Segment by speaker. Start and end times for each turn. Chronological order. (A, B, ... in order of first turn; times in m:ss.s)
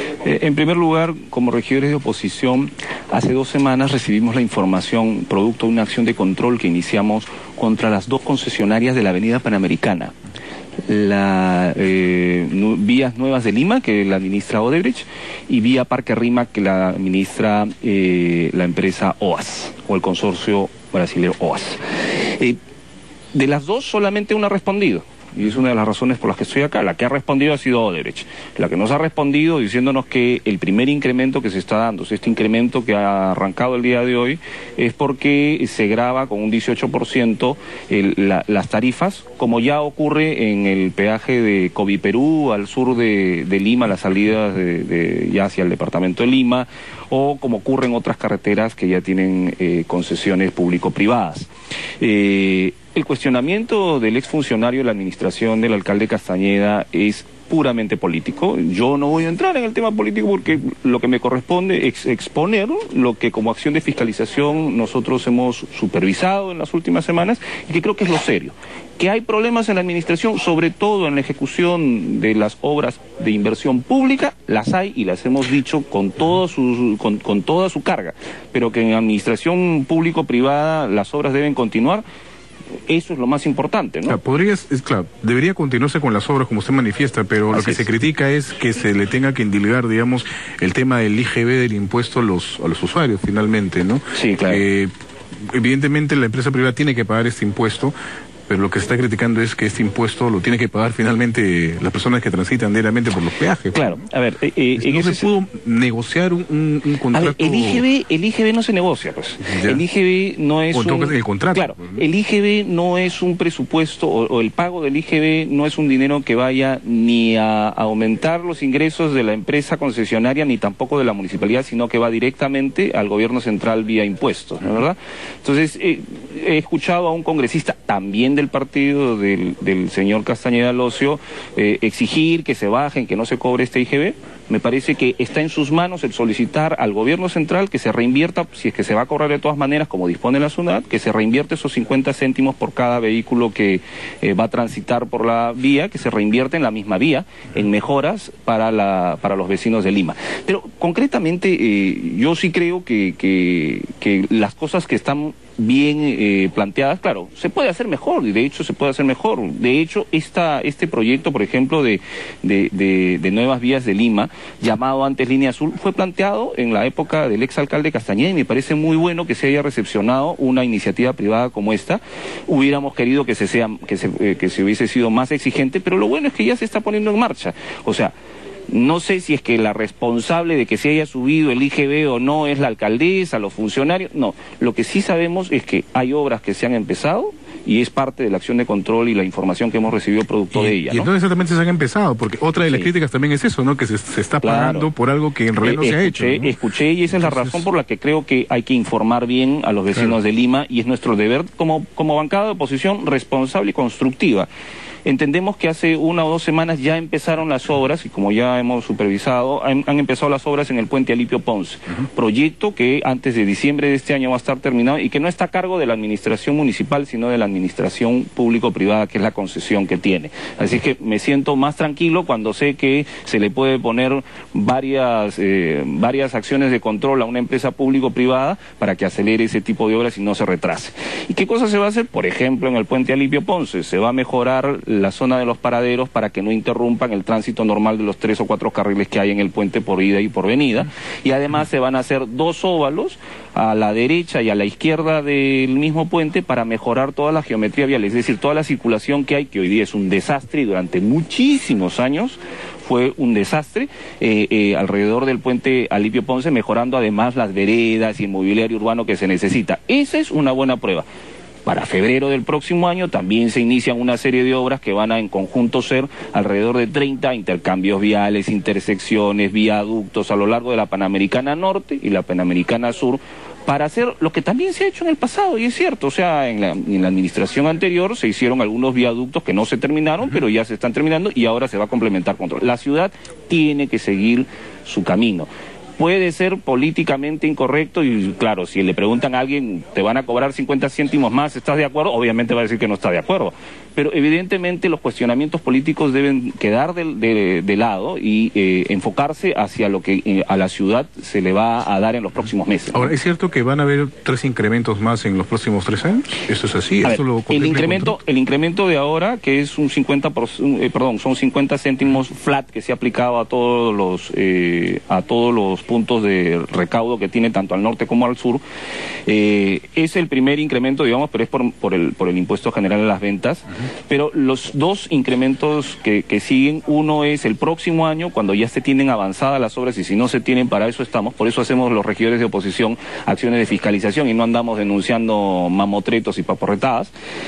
0:00.2-0:10.1 A
0:10.9-0:22.6 A
0:23.3-1:22.0 A
1:22.9-1:24.2 A
1:24.1-1:34.9 B
1:27.5-1:27.8 A
1:34.1-1:34.6 A
1:35.5-1:37.9 B
1:38.5-1:43.8 B
1:43.7-1:45.3 A
1:44.8-1:47.8 B
1:47.1-2:58.1 A
1:49.4-1:49.8 B
1:50.7-1:51.9 B
2:58.7-3:11.1 A
3:10.5-3:16.6 B
3:14.4-3:14.9 A
3:15.6-3:24.5 A
3:17.1-3:17.6 B
3:25.0-4:21.0 A
4:21.6-5:03.1 A
5:02.9-5:08.2 B
5:07.0-5:18.6 A
5:19.3-5:37.1 A